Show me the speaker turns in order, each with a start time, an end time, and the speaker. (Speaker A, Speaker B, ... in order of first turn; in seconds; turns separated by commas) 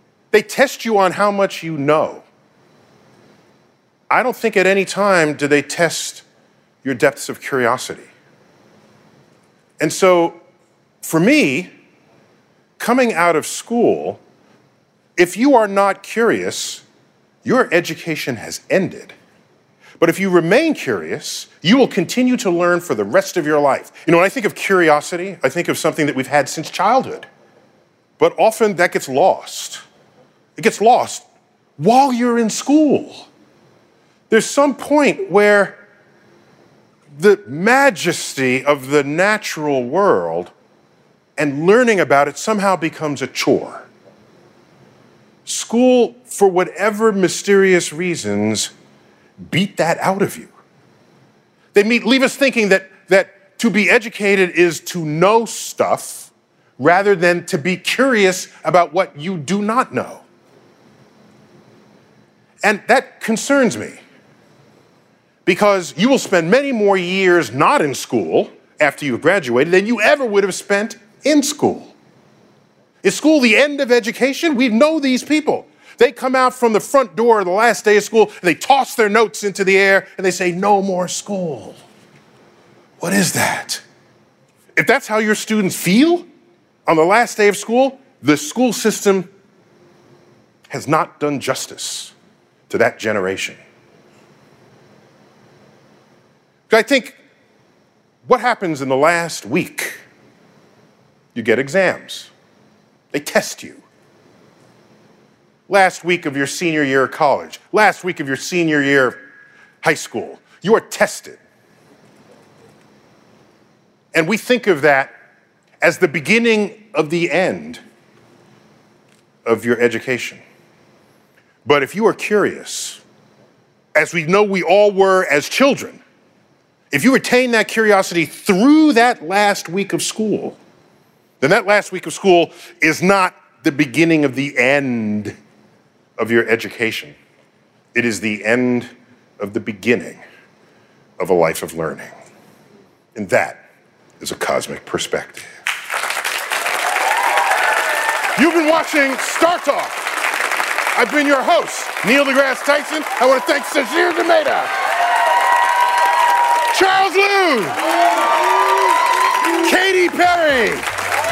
Speaker A: 0.3-2.2, Speaker A: 4.1-6.2, Speaker A: 6.8-8.1, Speaker A: 9.8-10.4, Speaker A: 11.0-11.7, Speaker A: 12.8-14.2, Speaker A: 15.2-16.8, Speaker A: 17.4-19.1, Speaker A: 20.0-27.3, Speaker A: 28.2-29.8, Speaker A: 30.6-31.2, Speaker A: 31.8-33.3, Speaker A: 34.3-35.8, Speaker A: 37.1-40.5, Speaker A: 41.4-43.9, Speaker A: 45.5-48.7, Speaker A: 49.4-50.5, Speaker A: 51.7-60.2, Speaker A: 62.6-64.0, Speaker A: 65.4-71.9, Speaker A: 73.0-81.8, Speaker A: 83.0-83.8, Speaker A: 84.7-86.2, Speaker A: 86.8-89.3, Speaker A: 90.7-92.1, Speaker A: 92.7-93.6, Speaker A: 96.7-97.2, Speaker A: 98.2-100.0, Speaker A: 101.3-102.3, Speaker A: 103.1-103.8, Speaker A: 105.7-109.2, Speaker A: 109.8-111.4, Speaker A: 114.1-115.1, Speaker A: 115.8-117.8, Speaker A: 119.4-120.4, Speaker A: 121.6-123.0, Speaker A: 123.9-126.0, Speaker A: 126.9-130.6, Speaker A: 131.4-135.3, Speaker A: 136.2-137.2, Speaker A: 137.9-140.2, Speaker A: 141.2-142.1, Speaker A: 143.1-143.6, Speaker A: 144.2-145.5, Speaker A: 148.3-150.3, Speaker A: 150.9-154.7, Speaker A: 156.7-157.8, Speaker A: 159.4-160.9